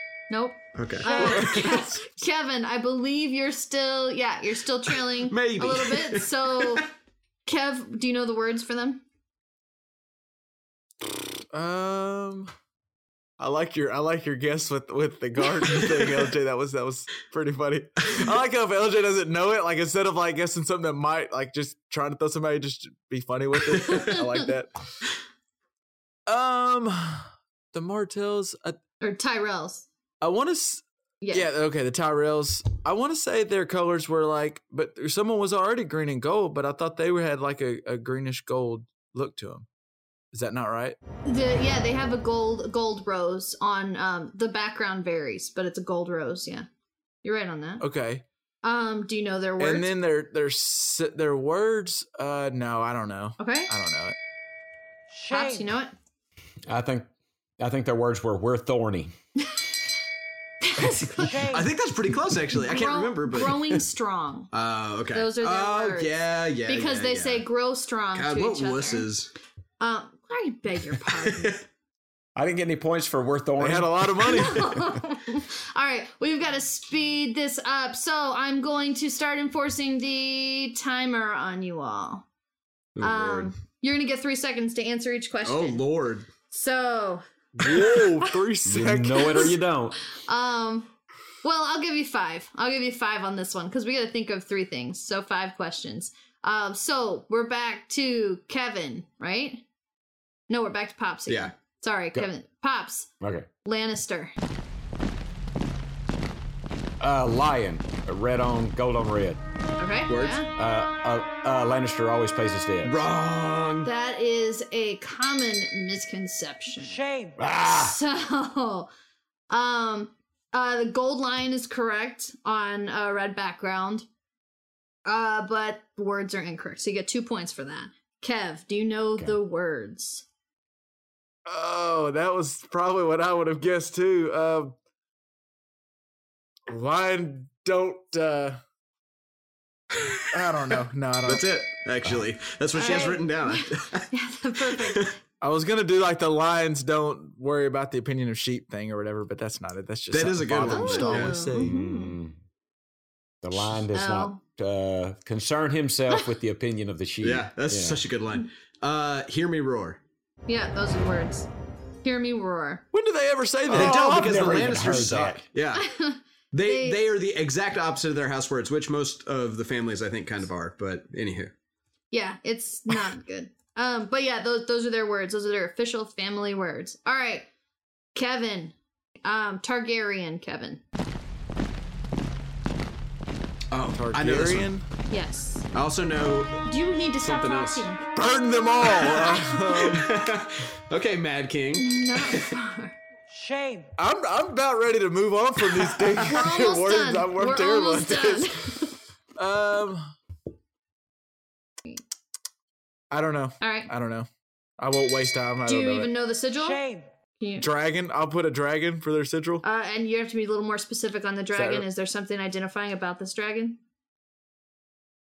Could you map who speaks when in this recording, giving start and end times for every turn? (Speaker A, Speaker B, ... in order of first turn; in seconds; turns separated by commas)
Speaker A: 0.3-6.9, Speaker B: 0.8-1.6, Speaker C: 1.0-1.4, Speaker D: 1.2-1.8, Speaker B: 5.2-6.8, Speaker A: 7.5-9.0, Speaker D: 11.5-12.5, Speaker D: 13.4-24.8, Speaker A: 23.9-24.2, Speaker D: 26.3-28.8, Speaker A: 29.0-29.9, Speaker D: 30.2-39.7, Speaker A: 31.2-31.5, Speaker D: 40.3-41.0, Speaker A: 41.2-46.7, Speaker A: 47.2-47.9, Speaker D: 47.8-48.2, Speaker A: 48.6-49.9, Speaker D: 49.6-54.1, Speaker A: 53.4-53.7, Speaker C: 55.1-55.7, Speaker A: 55.3-55.9, Speaker E: 56.7-57.1, Speaker E: 57.6-59.1, Speaker A: 60.6-61.6, Speaker C: 61.2-61.7, Speaker B: 61.5-63.8, Speaker A: 62.5-64.5, Speaker B: 64.5-67.5, Speaker A: 65.1-69.1, Speaker B: 68.1-69.3, Speaker A: 69.8-71.6, Speaker B: 71.1-71.6, Speaker E: 72.4-75.0, Speaker D: 73.6-74.7, Speaker A: 74.2-82.2, Speaker B: 83.0-83.5, Speaker A: 83.0-85.8, Speaker B: 85.5-86.3, Speaker A: 86.5-88.2, Speaker D: 87.6-89.4, Speaker E: 88.7-90.0, Speaker A: 89.2-89.6, Speaker A: 90.1-90.9, Speaker A: 91.4-99.6, Speaker A: 100.5-103.1, Speaker E: 103.2-103.5, Speaker A: 103.7-104.3, Speaker E: 107.0-109.4, Speaker A: 109.8-110.5, Speaker B: 110.1-110.4, Speaker E: 110.5-113.0, Speaker B: 112.8-113.9, Speaker A: 113.8-117.0, Speaker C: 116.8-117.4, Speaker E: 117.4-118.0, Speaker A: 117.6-118.9, Speaker A: 119.5-124.1, Speaker A: 125.0-130.2, Speaker D: 131.5-134.7, Speaker D: 136.7-138.6, Speaker D: 140.3-141.4, Speaker B: 141.3-144.1, Speaker A: 142.7-145.2, Speaker B: 144.7-145.1, Speaker D: 145.4-151.7, Speaker B: 150.1-151.4, Speaker A: 150.6-152.2, Speaker E: 151.6-152.4, Speaker E: 153.4-158.0, Speaker A: 153.8-154.4, Speaker B: 157.2-160.0, Speaker A: 160.5-161.5, Speaker A: 162.0-162.8, Speaker D: 162.9-165.0, Speaker B: 163.7-165.9, Speaker E: 163.7-165.5, Speaker A: 165.8-167.0, Speaker B: 166.5-171.5, Speaker A: 172.1-177.5, Speaker A: 178.2-180.8, Speaker B: 183.7-184.7, Speaker D: 183.9-184.8, Speaker A: 185.1-185.7, Speaker B: 185.7-186.6, Speaker A: 186.7-188.0, Speaker B: 187.2-187.9, Speaker D: 188.2-190.1, Speaker B: 189.0-192.5, Speaker A: 189.1-190.0, Speaker A: 191.8-192.9, Speaker C: 193.3-193.9, Speaker D: 194.0-198.6, Speaker A: 196.2-199.0, Speaker D: 199.4-200.1, Speaker D: 203.1-204.3, Speaker A: 203.6-203.9, Speaker D: 204.8-206.1, Speaker A: 205.7-206.8, Speaker C: 206.5-207.1, Speaker A: 207.4-207.7, Speaker D: 207.6-209.6, Speaker A: 209.6-213.8, Speaker D: 211.5-211.9